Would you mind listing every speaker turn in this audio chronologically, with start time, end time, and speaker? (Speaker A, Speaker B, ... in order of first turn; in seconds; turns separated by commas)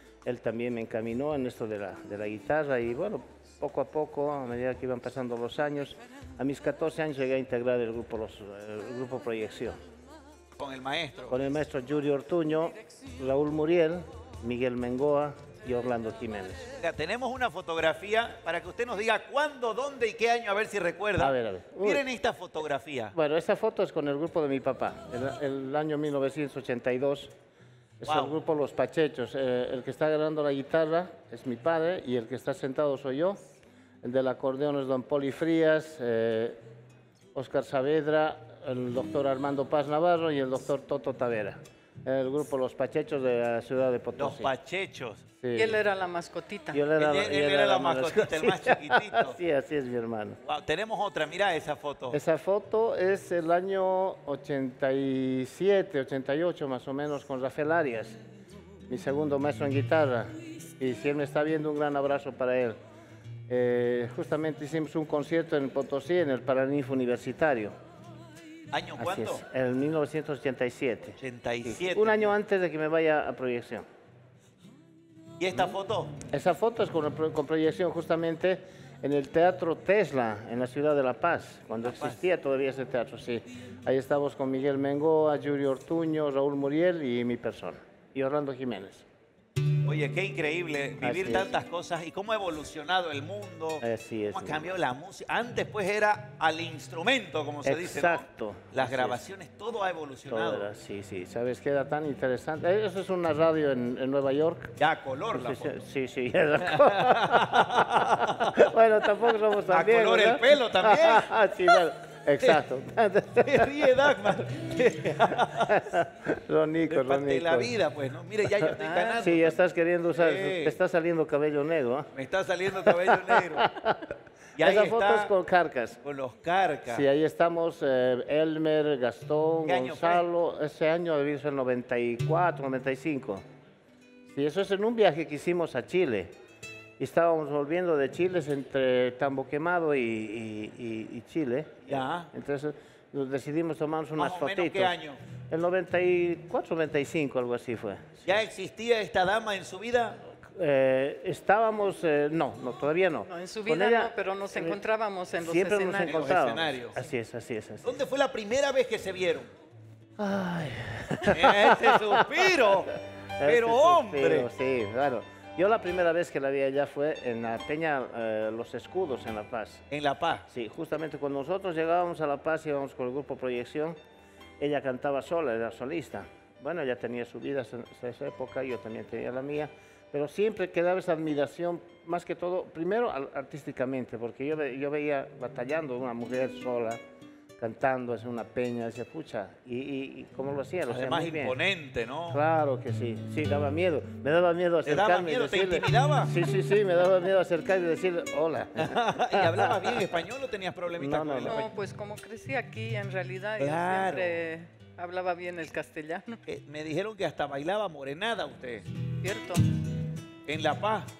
Speaker A: 0.2-9.8, Speaker B: 10.6-11.4, Speaker A: 11.3-16.7, Speaker B: 16.8-23.1, Speaker A: 21.2-22.0, Speaker A: 23.1-27.3, Speaker A: 28.0-33.4, Speaker B: 28.1-28.3, Speaker A: 34.0-36.6, Speaker A: 37.3-44.5, Speaker B: 44.2-45.2, Speaker A: 45.4-45.8, Speaker C: 45.5-46.8, Speaker A: 46.7-50.4, Speaker B: 47.0-49.4, Speaker B: 50.4-52.2, Speaker A: 52.1-58.2, Speaker A: 58.9-62.8, Speaker A: 63.5-67.7, Speaker B: 68.7-69.4, Speaker A: 69.0-73.8, Speaker B: 71.2-72.3, Speaker B: 75.4-76.1, Speaker A: 76.3-89.0, Speaker B: 81.8-82.2, Speaker B: 89.8-100.7, Speaker A: 91.0-91.5, Speaker A: 93.8-94.7, Speaker A: 97.6-99.2, Speaker A: 100.3-104.8, Speaker B: 104.8-105.8, Speaker A: 105.3-114.1, Speaker B: 106.6-108.6, Speaker B: 109.7-111.3, Speaker B: 113.4-115.8, Speaker A: 115.6-117.8, Speaker B: 116.9-119.6, Speaker A: 118.6-122.1, Speaker C: 118.8-119.2, Speaker B: 120.1-120.8, Speaker B: 122.1-123.7, Speaker A: 122.8-126.0, Speaker B: 124.5-125.3, Speaker B: 126.0-127.0, Speaker A: 126.9-133.4, Speaker B: 129.7-130.2, Speaker A: 134.3-136.3, Speaker A: 137.0-145.0, Speaker B: 141.8-142.3, Speaker B: 144.2-145.2, Speaker A: 145.5-148.5, Speaker B: 148.2-150.2, Speaker A: 150.4-154.8, Speaker C: 153.2-156.4, Speaker A: 155.4-158.0, Speaker B: 156.0-157.0, Speaker B: 157.8-159.5, Speaker A: 160.2-162.5, Speaker B: 161.3-164.5, Speaker A: 163.4-169.9, Speaker B: 169.9-170.4, Speaker A: 170.5-174.0, Speaker A: 174.6-187.0, Speaker A: 187.6-191.6, Speaker B: 190.8-192.4, Speaker A: 192.3-200.1, Speaker B: 194.8-196.3, Speaker B: 198.8-201.7, Speaker A: 200.9-201.6, Speaker C: 201.4-206.4, Speaker B: 203.6-204.4, Speaker B: 206.4-208.8, Speaker C: 209.2-209.6, Speaker B: 210.4-211.1